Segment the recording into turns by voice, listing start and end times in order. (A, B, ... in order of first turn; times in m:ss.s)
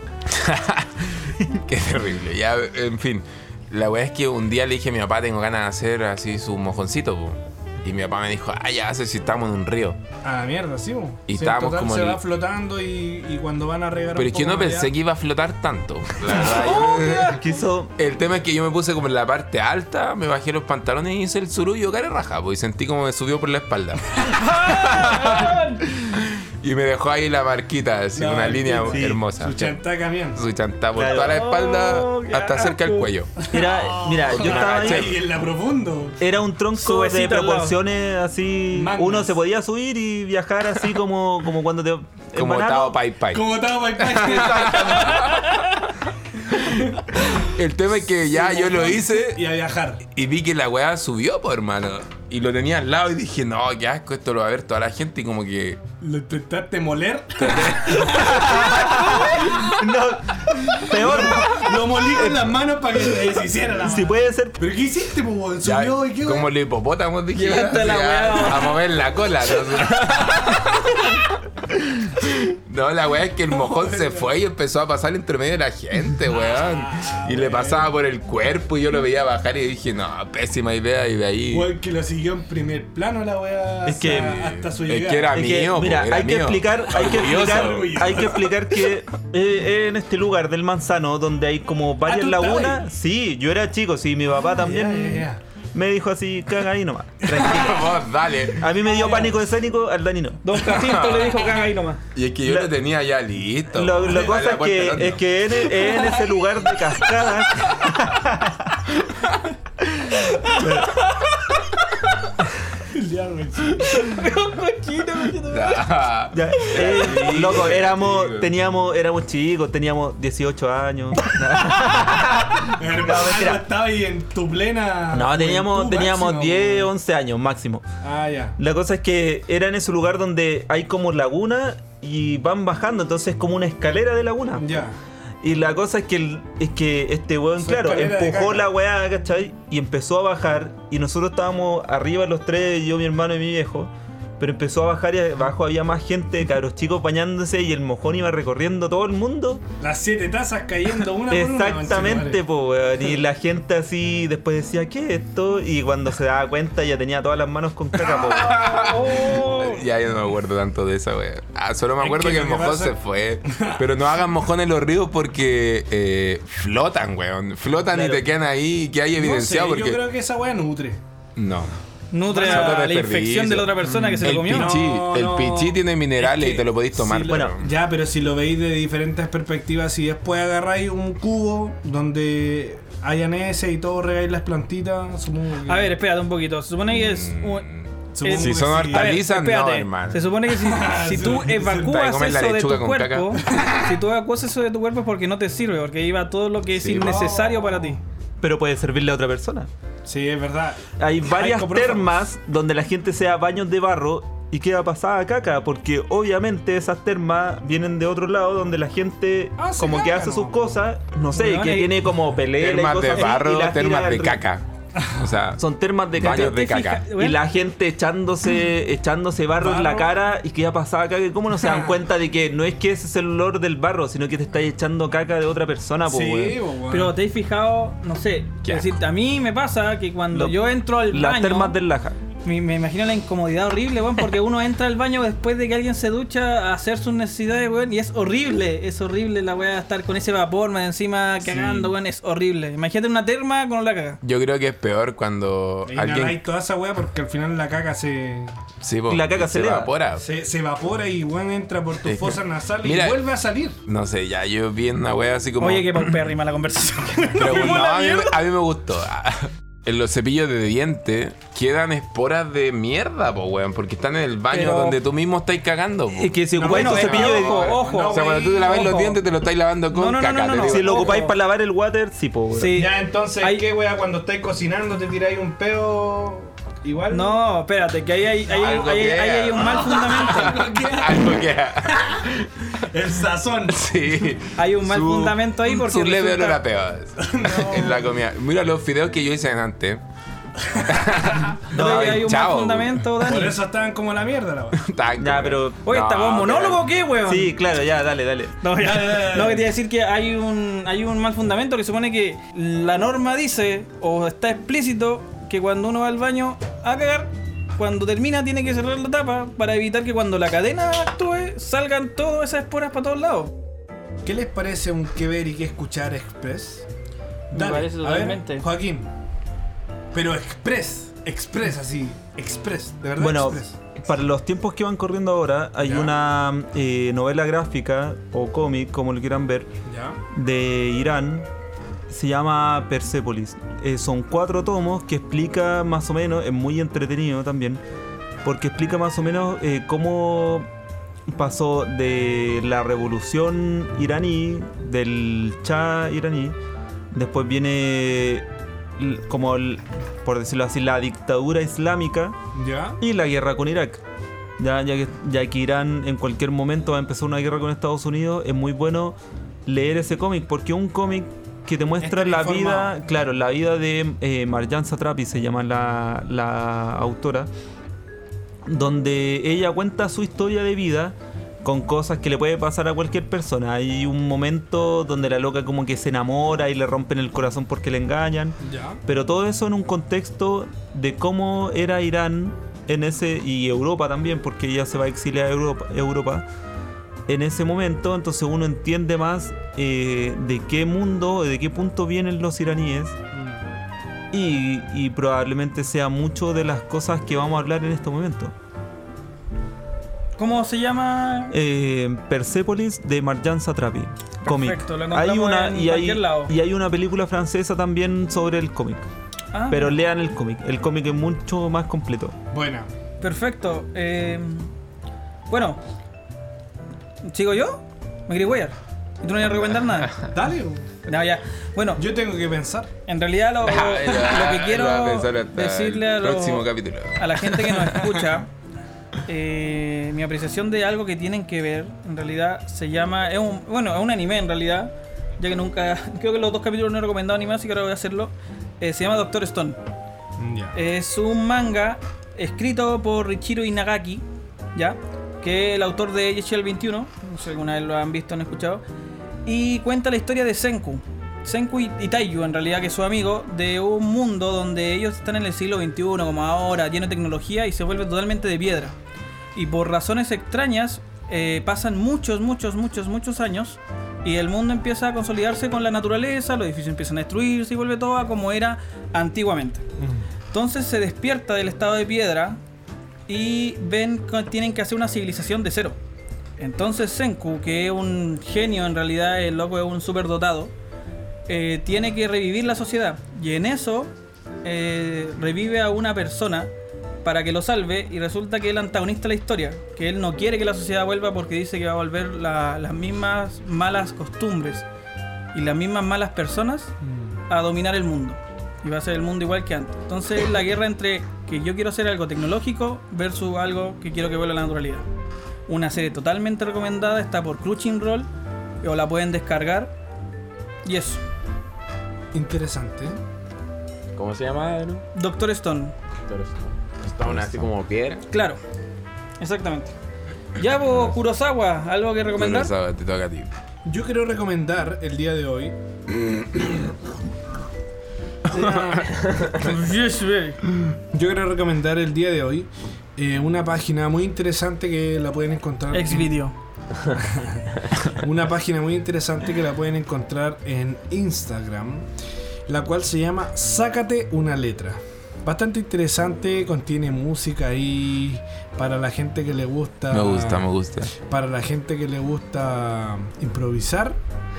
0:00.3-0:10.0 A
0:10.2-0:14.9 B
0:11.3-0:12.2 A
0:14.2-0:17.4 A
0:16.3-0:17.9 C
0:16.3-0:17.4 D
0:18.0-0:29.8 A
0:24.2-0:25.8 D
0:28.1-0:30.4 B
0:28.9-0:29.2 C
0:30.3-0:33.3 A
0:31.0-0:31.4 C
0:31.1-0:33.1 D
0:33.4-0:36.2 B
0:33.5-0:35.2 C
0:34.3-0:35.2 A
0:36.2-0:43.0 C
0:36.8-0:37.8 D
0:38.7-0:39.3 B
0:42.3-0:45.5 A
0:43.3-0:45.2 B
0:45.2-0:45.6 D
0:46.5-0:49.4 A
0:46.5-0:47.5 B
0:48.2-0:50.0 B
0:50.1-0:55.8 A
0:56.0-1:06.5 B
0:57.4-0:58.7 A
0:58.1-1:04.6 C
1:05.6-1:11.3 A
1:07.3-1:08.8 D
1:12.3-1:21.7 A
1:13.5-1:14.3 B
1:16.4-1:17.9 B
1:21.5-1:25.4 B
1:23.8-1:24.5 C
1:24.3-1:28.4 A
1:25.3-1:37.9 C
1:27.0-1:28.5 B
1:32.0-1:32.8 B
1:34.6-1:35.4 B
1:37.3-1:37.7 B
1:37.3-1:38.7 A
1:38.6-1:40.5 C
1:39.0-1:39.3 D
1:40.4-1:42.0 D
1:40.6-1:41.4 A
1:42.1-1:45.2 A
1:43.7-1:49.0 C
1:49.8-1:50.9 C
1:52.8-1:54.0 B
1:53.7-1:56.0 D
1:55.5-1:58.5 A
1:56.3-2:03.6 C
1:56.8-1:57.0 D
2:02.1-2:06.9 B
2:05.1-2:07.8 C
2:08.0-2:08.6 B
2:08.6-2:14.6 C
2:14.5-2:15.0 B
2:15.4-2:29.6 C
2:17.6-2:18.7 B
2:29.8-2:32.4 B
2:31.3-2:38.7 C
2:38.2-2:50.0 A
2:38.4-2:39.9 D
2:42.0-2:43.8 B
2:47.9-2:48.2 C
2:49.2-2:51.0 B
2:51.4-2:51.7 A
2:52.1-2:54.8 D
2:52.3-2:52.9 B
2:52.3-2:57.7 A
2:54.4-3:06.0 B
2:57.3-2:57.5 C
3:05.6-3:07.7 D
3:06.9-3:10.3 A
3:08.1-3:09.2 B
3:08.2-3:18.0 D
3:10.5-3:12.0 B
3:11.8-3:13.4 A
3:13.4-3:14.0 B
3:16.7-3:17.3 A
3:16.9-3:18.0 B
3:18.4-3:19.7 C
3:20.0-3:22.2 B
3:21.0-3:34.4 C
3:29.6-3:30.8 B
3:31.3-3:31.9 D
3:32.5-3:35.6 A
3:34.9-3:35.2 B
3:35.6-3:46.6 C
3:36.1-3:37.1 A
3:36.2-3:37.4 D
3:39.6-3:40.1 B
3:41.6-3:41.9 B
3:46.0-3:47.2 B
3:46.9-3:51.8 D
3:48.6-3:49.0 A
3:50.3-3:52.2 C
3:52.4-4:04.2 D
4:01.5-4:01.8 C
4:04.2-4:06.4 A
4:05.8-4:08.5 B
4:08.8-4:10.2 A
4:09.1-4:09.9 C
4:10.2-4:13.8 B
4:12.1-4:13.2 A
4:13.8-4:16.1 A
4:15.6-4:18.4 D
4:17.3-4:17.8 B
4:17.4-4:27.5 A
4:24.5-4:25.0 D
4:26.1-4:27.8 C
4:26.5-4:29.1 B
4:26.7-4:29.2 D
4:28.0-4:31.2 A
4:29.9-4:31.3 D
4:30.6-4:32.7 C
4:32.6-4:33.6 D
4:32.6-4:37.4 B
4:37.1-4:40.6 D
4:38.5-4:42.0 A
4:39.6-4:43.9 B
4:43.7-4:50.0 A
4:44.6-4:46.6 D
4:47.2-4:48.0 B
4:50.7-4:51.6 B
4:50.8-4:53.0 A
4:51.7-4:53.6 D
4:51.7-4:52.3 C
4:53.2-4:54.8 B
4:54.8-4:56.8 A
4:55.2-4:55.9 C
4:55.8-4:57.5 D
4:57.2-4:58.6 C
4:58.6-5:13.5 D
4:58.8-4:59.7 B
5:14.2-5:16.9 B
5:17.5-5:19.1 B
5:17.5-5:18.6 D
5:20.1-5:23.8 B
5:23.2-5:29.7 C
5:25.8-5:26.2 B
5:29.8-5:30.2 B
5:30.3-5:31.5 C
5:32.1-5:37.8 C
5:38.4-5:40.7 C
5:41.3-5:46.5 C
5:47.1-5:48.4 C
5:49.0-5:52.4 C
5:52.5-5:53.0 B
5:53.0-5:54.0 C
5:54.6-6:07.5 C
6:02.0-6:03.0 B
6:08.6-6:26.4 C
6:18.6-6:19.0 B
6:27.3-6:33.2 C
6:33.3-6:33.7 B
6:34.3-6:38.5 C
6:40.4-6:41.5 D
6:41.5-6:49.1 C
6:44.4-6:46.5 D
6:49.5-6:50.0 D
6:49.7-6:52.3 C
6:52.5-6:52.9 B
6:53.2-6:54.7 D
6:55.5-6:55.8 D
6:57.2-7:00.3 D
7:00.3-7:00.8 B
7:01.0-7:02.0 D
7:02.0-7:02.9 B
7:03.0-7:08.5 D
7:03.6-7:08.2 A
7:09.2-7:19.8 D
7:20.4-7:20.8 B
7:20.7-7:28.8 D
7:29.4-7:38.9 D
7:39.5-7:49.8 D
7:50.0-7:50.2 B
7:50.5-7:52.6 D
7:53.3-7:56.0 D
7:56.6-8:00.7 D
8:01.5-8:06.7 D
8:07.2-8:14.8 D
8:15.5-8:16.9 D
8:17.0-8:17.3 B
8:17.5-8:25.0 D
8:25.7-8:28.3 D
8:28.8-8:29.9 D
8:30.8-8:31.2 D
8:32.3-8:33.2 B
8:34.1-8:35.0 E
8:35.1-8:35.9 D
8:36.3-8:38.2 E
8:37.2-8:37.7 A
8:38.3-8:38.6 D
8:39.4-8:39.9 D
8:40.6-8:42.7 D
8:42.3-8:43.5 A
8:43.8-8:45.8 B
8:48.5-8:50.6 D
8:51.1-8:56.4 B
8:55.9-8:56.5 D
8:57.1-9:02.1 B
9:02.7-9:14.2 B
9:10.1-9:11.1 A